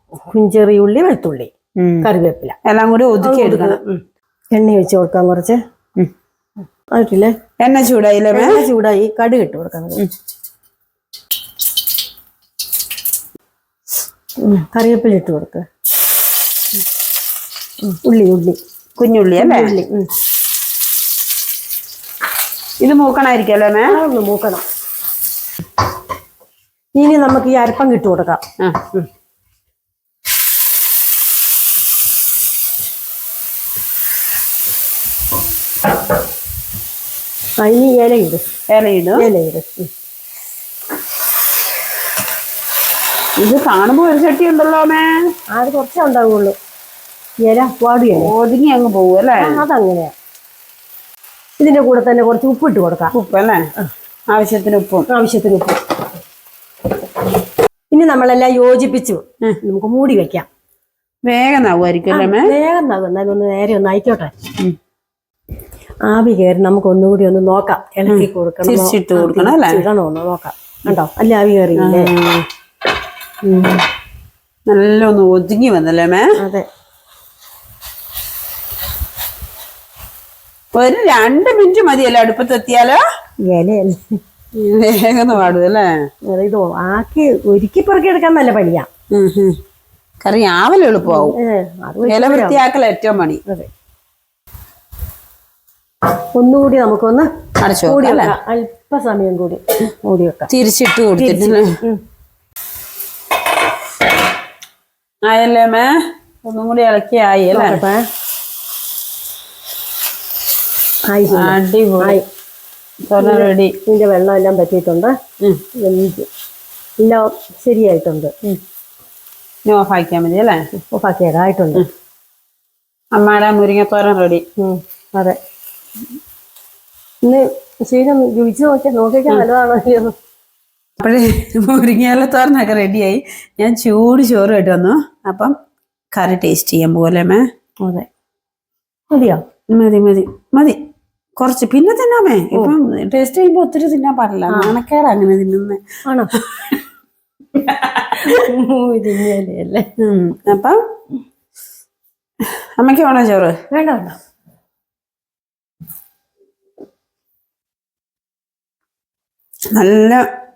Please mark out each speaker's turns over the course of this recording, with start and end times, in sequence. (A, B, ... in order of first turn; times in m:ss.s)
0:00.3-0:01.5 A
0:01.8-0:02.1 B
0:02.0-0:02.6 A
0:02.6-0:03.8 B
0:03.2-0:04.0 A
0:04.5-0:05.6 A
0:06.9-0:07.4 A
0:07.6-0:08.6 B
0:08.3-0:10.0 A
0:14.4-0:15.6 A
0:17.9-0:18.6 A
0:19.0-0:19.7 B
0:19.4-0:20.1 A
0:22.8-0:24.0 B
0:23.9-0:24.6 A
0:27.0-0:28.4 A
0:28.6-0:29.0 B
0:37.6-0:38.4 A
0:38.7-0:39.3 B
0:39.2-0:39.9 A
0:43.4-0:45.2 B
0:45.5-0:46.6 A
0:47.4-0:48.3 A
0:48.1-0:49.6 B
0:49.4-0:50.1 A
0:51.6-0:53.1 A
0:53.1-0:53.6 B
0:54.3-0:55.1 B
0:55.1-0:55.8 A
0:57.9-1:00.5 A
1:01.3-1:02.5 B
1:02.1-1:04.3 A
1:06.0-1:12.1 A
1:08.1-1:09.8 B
1:11.8-1:12.5 B
1:13.4-1:13.8 A
1:14.7-1:16.3 B
1:16.4-1:16.7 A
1:20.7-1:23.0 B
1:23.5-1:24.2 A
1:24.6-1:26.1 B
1:26.2-1:28.9 A
1:29.1-1:29.6 B
1:30.2-1:31.4 B
1:31.0-1:32.6 A
1:32.0-1:33.4 B
1:36.4-1:40.5 A
1:37.6-1:38.4 B
1:40.5-1:41.8 B
1:41.2-1:42.0 A
1:45.2-1:45.9 B
1:46.4-1:47.8 B
1:47.5-1:48.0 A
1:51.1-1:52.2 A
1:51.3-1:52.2 B
1:53.0-1:53.8 B
1:53.2-1:55.1 A
1:55.8-1:56.3 A
1:57.0-1:58.3 A
1:59.7-2:00.7 B
2:00.8-2:01.8 A
2:03.1-2:04.4 B
2:04.6-2:05.4 A
2:07.2-2:10.1 A
2:11.0-2:15.5 B
2:16.1-2:17.4 B
2:17.8-2:18.1 A
2:19.1-2:19.4 A
2:19.7-2:20.8 B
2:21.4-2:25.8 B
2:24.5-2:24.8 A
2:26.1-2:26.3 A
2:26.3-2:26.8 B
2:27.5-2:28.5 B
2:28.2-2:29.8 A
2:30.0-2:30.8 B
2:32.8-2:33.6 B
2:33.7-2:34.2 A
2:39.7-2:40.2 B